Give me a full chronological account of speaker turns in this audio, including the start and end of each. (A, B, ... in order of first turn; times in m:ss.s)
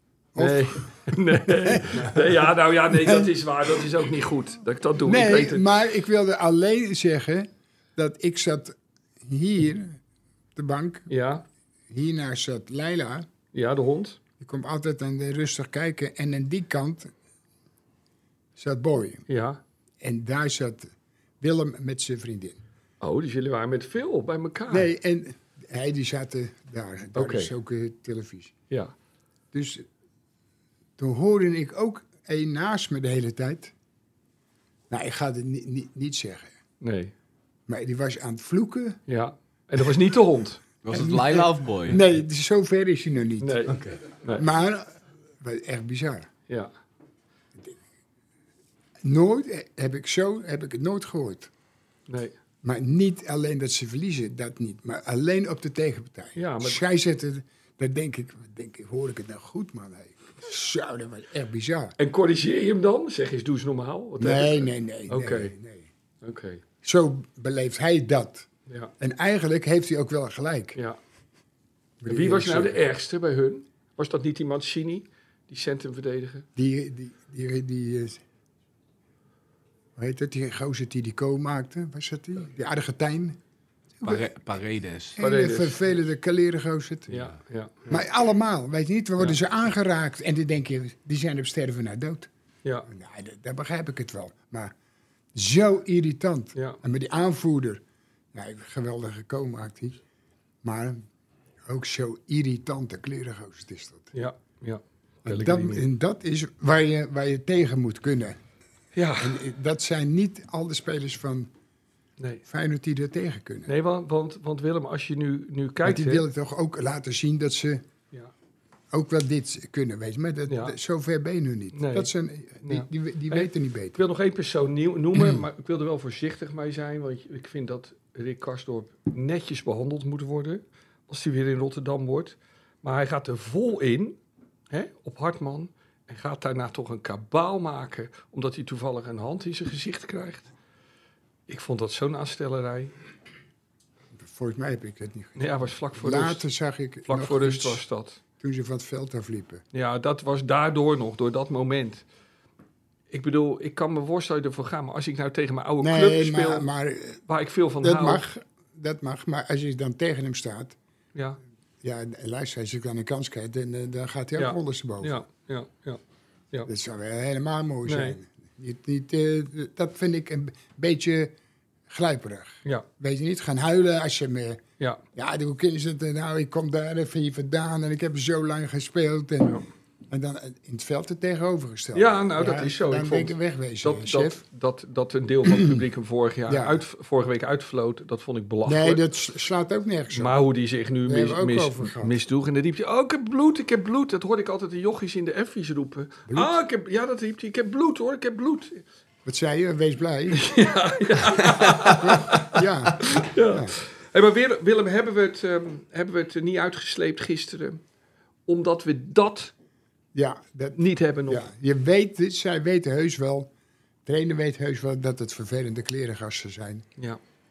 0:00.3-0:03.9 A
0:00.4-0:05.7 B
0:05.0-0:10.0 A
0:10.5-0:11.1 A
0:11.1-0:11.4 B
0:11.9-0:13.3 A
0:13.5-0:14.2 B
0:14.4-0:17.1 A
0:18.6-0:19.3 A
0:19.3-0:19.6 B
0:20.0-0:22.6 A
0:23.0-0:24.9 B
0:24.7-0:28.5 A
0:27.1-0:27.5 B
0:29.5-0:29.8 A
0:31.0-0:33.7 A
0:34.9-0:36.5 A
0:36.8-0:37.1 B
0:37.7-0:39.0 A
0:39.1-0:40.6 B
0:40.8-0:42.0 C
0:40.9-0:43.8 A
0:43.4-0:44.4 B
0:44.3-0:46.3 A
0:49.0-0:51.5 A
0:52.1-0:52.3 B
0:52.6-1:01.9 A
0:56.4-0:56.8 B
1:02.0-1:05.5 B
1:04.2-1:05.9 A
1:06.2-1:06.6 B
1:06.8-1:08.5 A
1:09.0-1:10.8 A
1:12.0-1:12.8 A
1:12.0-1:16.4 B
1:16.6-1:18.2 A
1:20.0-1:23.4 A
1:24.0-1:24.3 A
1:24.0-1:25.2 C
1:25.2-1:27.2 A
1:25.2-1:25.8 B
1:27.1-1:28.0 B
1:27.9-1:32.3 A
1:32.9-1:34.7 A
1:35.3-1:37.8 A
1:38.3-1:40.0 A
1:40.6-1:41.0 A
1:41.6-1:44.1 A
1:44.1-1:45.8 B
1:45.2-1:48.4 A
1:48.9-1:49.4 B
1:49.2-1:51.5 A
1:52.4-1:53.7 A
1:53.7-1:56.2 B
1:55.8-1:57.8 A
1:58.9-2:04.0 A
2:00.5-2:00.8 B
2:01.7-2:14.2 B
2:05.1-2:05.4 A
2:14.7-2:20.5 B
2:21.5-2:22.9 B
2:24.1-2:27.8 A
2:25.4-2:26.4 B
2:27.1-2:28.2 B
2:28.4-2:29.6 A
2:29.7-2:32.0 B
2:33.1-2:36.7 B
2:35.8-2:37.2 A
2:37.3-2:38.2 B
2:37.8-2:40.8 A
2:41.8-2:45.2 A
2:44.4-2:46.0 B
2:46.7-2:51.3 A
2:47.8-2:48.2 B
2:51.9-2:54.6 A
2:55.1-3:04.4 A
3:01.9-3:09.0 B
3:05.4-3:05.8 A
3:06.5-3:06.8 A
3:08.6-3:10.4 A
3:10.1-3:18.8 B
3:11.0-3:12.2 A
3:16.3-3:16.5 A
3:19.2-3:20.6 A
3:20.3-3:27.8 B
3:21.4-3:23.8 A
3:28.5-3:29.5 B
3:30.1-3:33.5 A
3:30.8-3:31.4 B
3:34.0-3:36.8 A